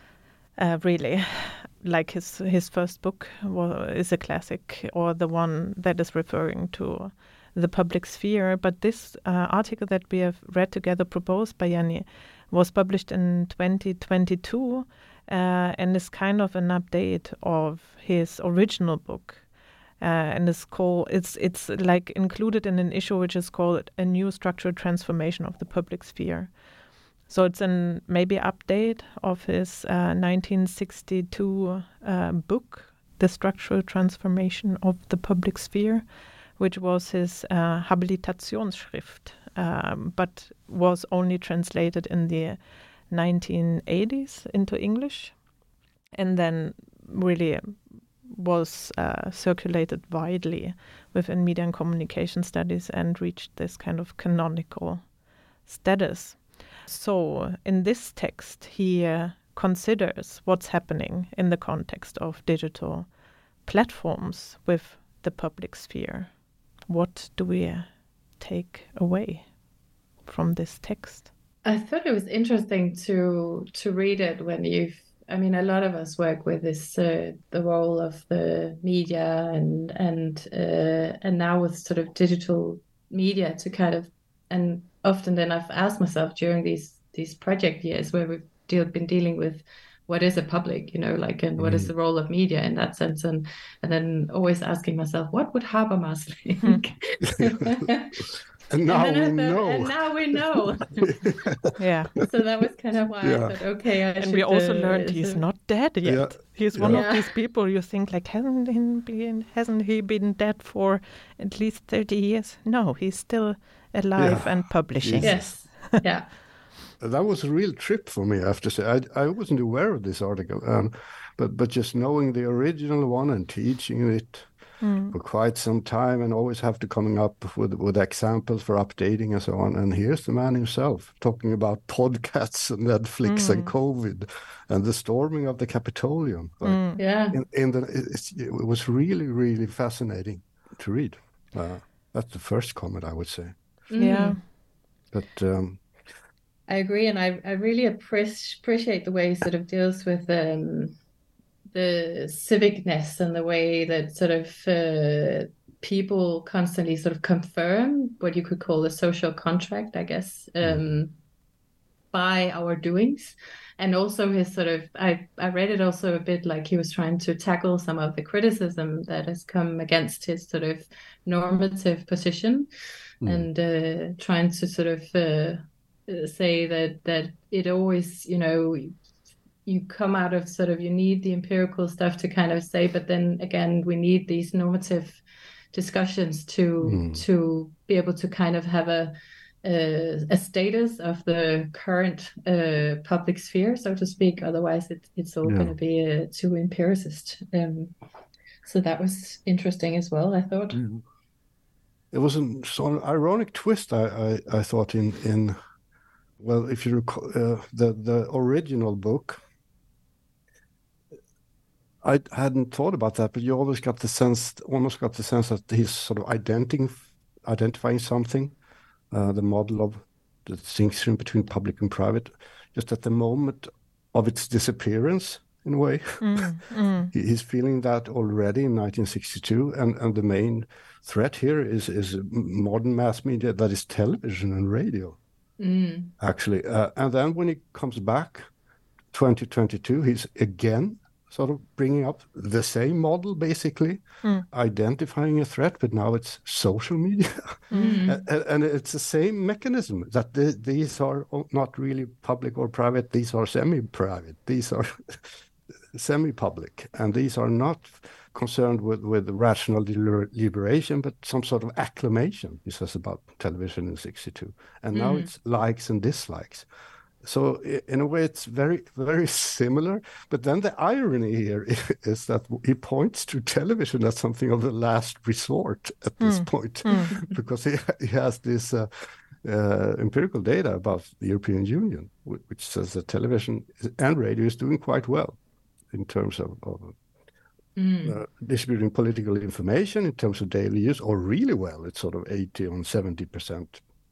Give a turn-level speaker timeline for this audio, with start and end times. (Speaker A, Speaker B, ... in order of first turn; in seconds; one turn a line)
Speaker A: 0.6-19.4
Speaker A: 20.0-26.6
Speaker A: 27.2-45.4
Speaker A: 46.1-55.1
Speaker A: 55.6-69.5
Speaker A: 70.2-71.3
Speaker B: 71.6-98.2
Speaker C: 91.6-91.9
Speaker C: 97.4-97.9
Speaker C: 98.7-100.4
Speaker B: 98.9-101.3
Speaker C: 101.0-101.7
Speaker A: 101.8-102.2
Speaker B: 102.2-105.4
Speaker C: 103.2-103.5
Speaker A: 104.2-116.0
Speaker C: 106.0-107.1
Speaker B: 106.8-107.3
Speaker C: 114.2-115.5
Speaker B: 115.2-116.3
Speaker C: 117.0-143.6
Speaker A: 124.8-125.1
Speaker A: 133.2-133.7
Speaker A: 136.6-137.0
Speaker B: 137.0-137.4
Speaker B: 143.9-144.4
Speaker A: 144.0-144.4
Speaker C: 145.1-145.9
Speaker B: 146.7-150.9
Speaker B: 151.7-161.2
Speaker B: 162.1-172.7
Speaker C: 173.2-173.5
Speaker B: 173.2-178.9
Speaker B: 179.7-197.9
Speaker C: 186.8-187.2
Speaker C: 195.4-195.7
Speaker B: 198.6-200.8
Speaker C: 200.7-201.0
Speaker C: 202.1-205.6
Speaker C: 206.4-209.4
Speaker C: 212.0-218.5
Speaker C: 219.1-226.4
Speaker A: 226.2-227.1
Speaker C: 227.1-235.2
Speaker B: 235.6-236.1
Speaker C: 236.2-238.5
Speaker C: 239.1-266.6
Speaker A: 247.7-248.0
Speaker B: 247.7-248.2
Speaker B: 264.9-265.3
Speaker C: 267.2-285.4
Speaker A: 276.2-277.2
Speaker C: 285.9-286.9
Speaker B: 287.8-288.2
Speaker C: 288.0-293.8